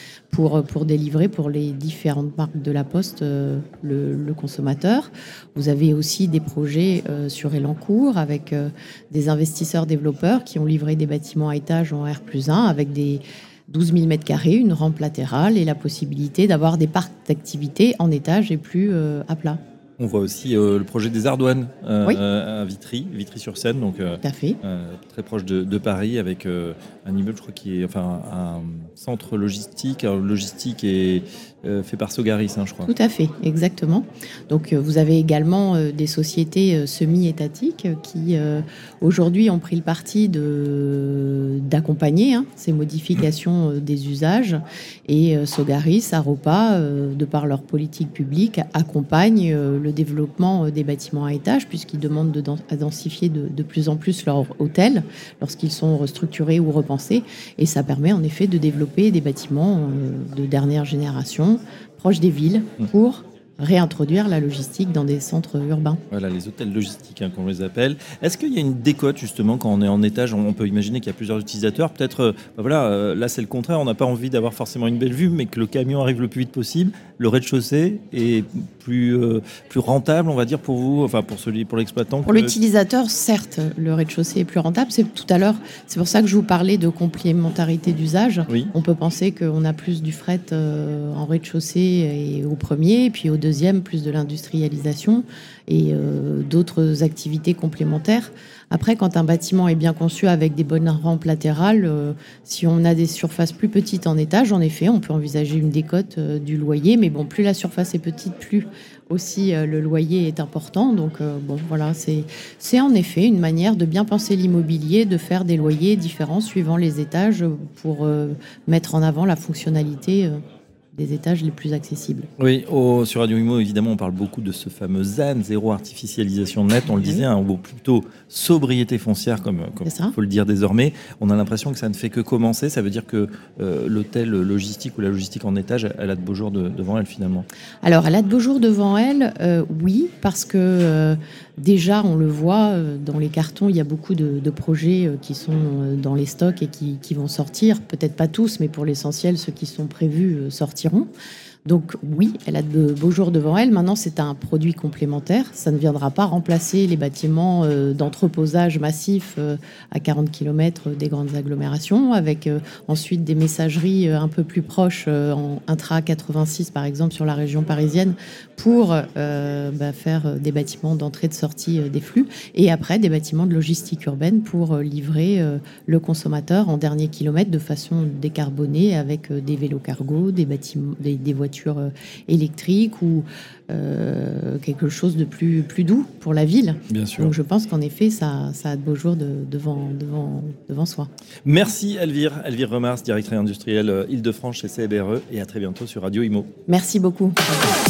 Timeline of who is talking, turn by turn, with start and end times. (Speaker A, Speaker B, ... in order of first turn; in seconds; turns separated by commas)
Speaker A: 0.3-19.6, Speaker B: 20.0-32.9, Speaker A: 24.2-24.6, Speaker A: 32.9-66.0, Speaker B: 66.1-82.5, Speaker A: 82.2-120.4, Speaker A: 120.9-122.3, Speaker B: 122.4-137.5, Speaker A: 129.8-130.2, Speaker A: 137.8-151.1, Speaker A: 151.7-191.1, Speaker B: 186.9-187.3, Speaker B: 191.4-196.5, Speaker A: 196.7-197.7